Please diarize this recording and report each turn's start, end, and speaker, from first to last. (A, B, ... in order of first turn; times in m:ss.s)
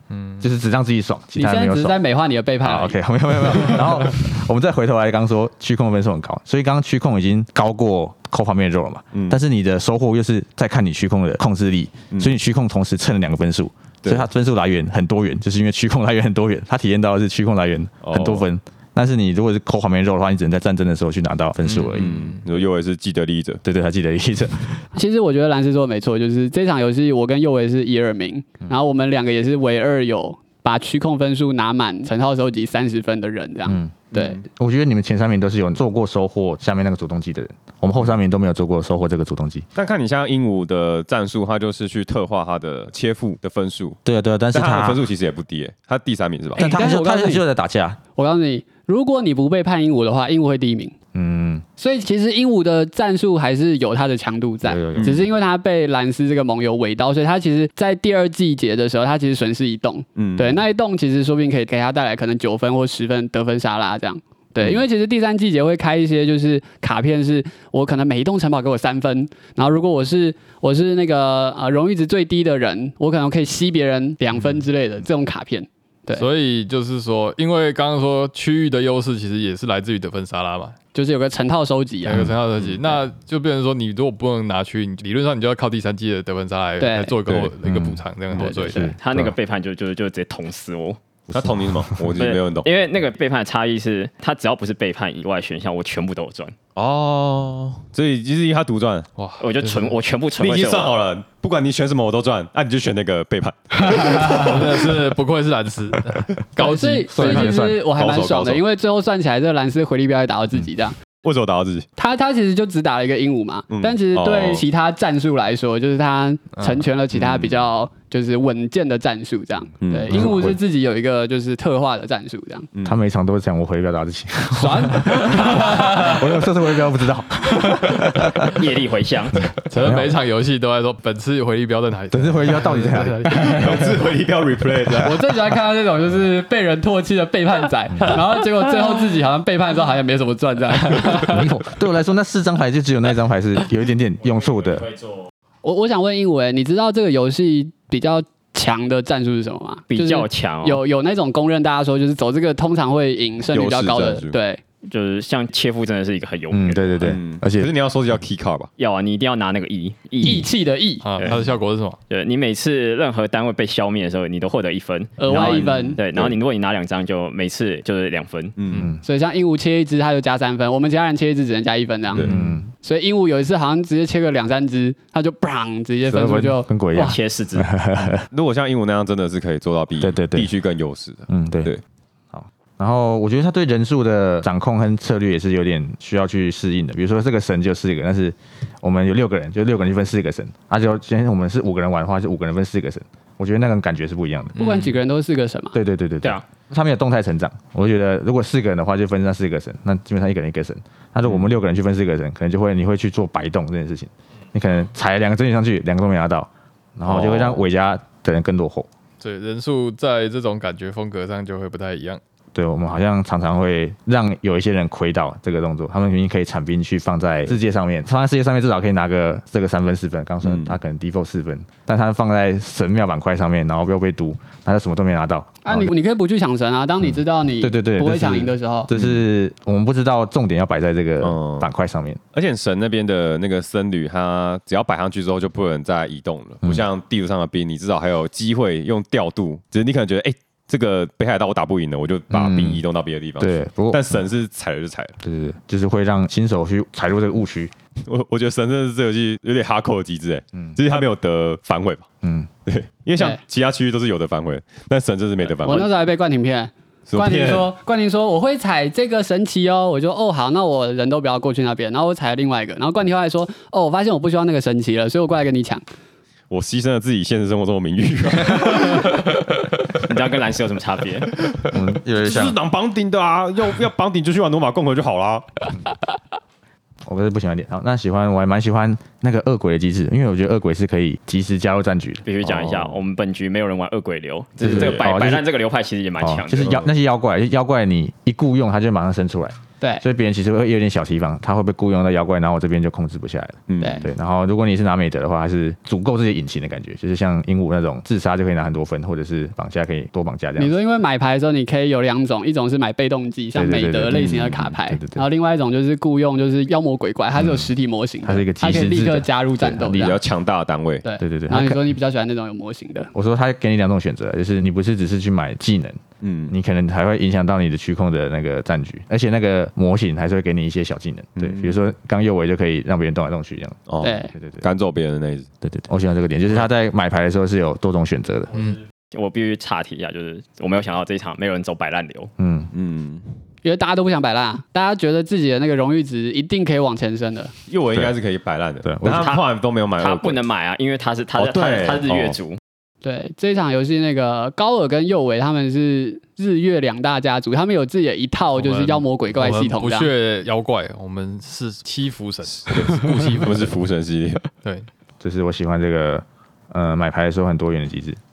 0:00.1-0:00.4 A
0:00.4-0:02.0 B
0:01.4-0:03.0 C
0:02.6-0:22.2 B
0:09.1-0:09.4 D
0:18.0-0:18.5 D
0:21.6-0:22.4 A
0:21.9-0:23.6 D
0:23.6-0:24.8 B
0:24.9-0:34.4 C
0:33.6-0:39.6 B
0:39.8-0:44.0 D
0:44.0-0:45.0 B
0:44.5-0:46.7 D
0:46.6-0:47.4 C
0:46.6-0:48.0 B
0:48.2-0:51.0 C
0:51.1-0:51.6 B
0:51.8-1:16.2 C
0:54.6-0:55.3 B
0:55.0-0:55.2 D
1:00.2-1:00.6 D
1:16.1-1:20.8 A
1:20.9-1:22.3 C
1:22.0-1:28.9 A
1:26.8-1:27.2 C
1:27.3-1:27.5 D
1:27.6-1:29.3 B
1:28.4-1:28.9 C
1:29.0-1:31.0 E
1:31.3-1:32.7 D
1:31.3-1:32.1 B
1:32.2-1:36.6 E
1:36.8-1:39.1 D
1:39.2-1:39.9 A
1:39.4-1:40.9 E
1:40.4-1:44.6 D
1:43.9-1:44.6 C
1:44.3-1:47.6 A
1:46.6-1:51.0 C
1:46.8-1:47.9 B
1:47.9-1:48.6 D
1:51.2-1:51.9 D
1:52.0-2:02.7 C
1:53.7-1:54.6 D
1:56.6-1:56.8 A
1:57.1-1:57.6 D
1:59.8-2:00.5 D
2:00.1-2:00.6 B
2:02.8-2:08.6 B
2:04.5-2:06.3 C
2:08.5-2:09.4 E
2:09.7-2:13.6 A
2:09.8-2:10.1 B
2:12.1-2:13.5 B
2:13.4-2:13.7 C
2:13.4-2:15.2 D
2:15.0-2:21.5 C
2:21.2-2:24.9 B
2:24.5-2:25.3 E
2:25.6-2:34.6 C
2:29.9-2:30.8 E
2:33.5-2:34.4 D
2:34.8-2:37.0 E
2:36.5-2:37.7 B
2:37.0-2:38.7 D
2:38.8-2:40.5 E
2:40.2-2:41.0 C
2:41.0-2:42.0 A
2:42.1-2:48.6 E
2:45.2-2:46.0 C
2:45.3-2:46.3 D
2:48.6-2:48.9 D
2:48.7-2:49.0 B
2:49.0-2:57.2 C
2:52.1-2:52.4 D
2:52.2-2:52.7 B
2:56.0-2:58.2 B
2:57.0-2:57.7 E
2:58.3-3:01.8 D
3:00.0-3:00.5 B
3:01.3-3:01.7 B
3:02.3-3:14.6 B
3:14.6-3:15.0 A
3:14.6-3:15.8 C
3:15.7-3:28.9 B
3:27.0-3:27.6 D
3:29.2-3:32.2 A
3:32.5-3:45.9 B
3:40.4-3:40.8 D
3:45.6-3:48.9 C
3:47.0-3:52.2 B
3:48.9-3:49.2 D
3:51.2-3:51.7 D
3:52.3-4:05.2 D
4:02.3-4:02.8 B
4:03.4-4:04.2 B
4:05.2-4:07.7 B
4:08.0-4:12.1 D
4:10.5-4:10.9 B
4:12.2-4:12.5 B
4:12.6-4:15.9 D
4:15.6-4:25.8 C
4:17.1-4:17.7 D
4:26.5-4:29.3 D
4:30.0-4:31.3 E
4:31.4-4:35.7 D
4:31.6-4:32.6 B
4:37.0-4:42.2 B
4:42.2-4:46.8 E
4:42.4-4:43.0 D
4:44.6-4:45.0 D
4:44.6-4:45.4 B
4:46.2-5:00.8 B
4:46.6-4:46.9 D
4:53.7-4:54.1 D
5:00.6-5:10.2 C
5:03.5-5:05.2 B
5:04.1-5:04.4 D
5:07.4-5:07.7 B
5:08.2-5:10.2 B
5:09.8-5:11.0 D
5:11.0-5:13.1 C
5:11.2-5:11.8 B
5:13.1-5:24.6 B
5:16.2-5:16.5 D
5:21.4-5:21.8 D
5:23.9-5:25.5 D
5:24.0-5:24.3 C
5:25.6-5:28.5 B
5:28.5-5:28.8 A
5:29.1-5:32.3 E
5:32.4-5:32.7 B
5:32.7-5:33.3 D
5:33.6-5:37.5 C
5:37.7-5:40.4 D
5:38.8-5:39.3 B
5:39.1-5:39.4 E
5:40.0-5:42.6 E
5:41.4-5:42.4 D
5:43.0-5:50.1 C
5:48.5-5:53.7 A
5:52.7-5:54.4 D
5:55.2-5:58.2 B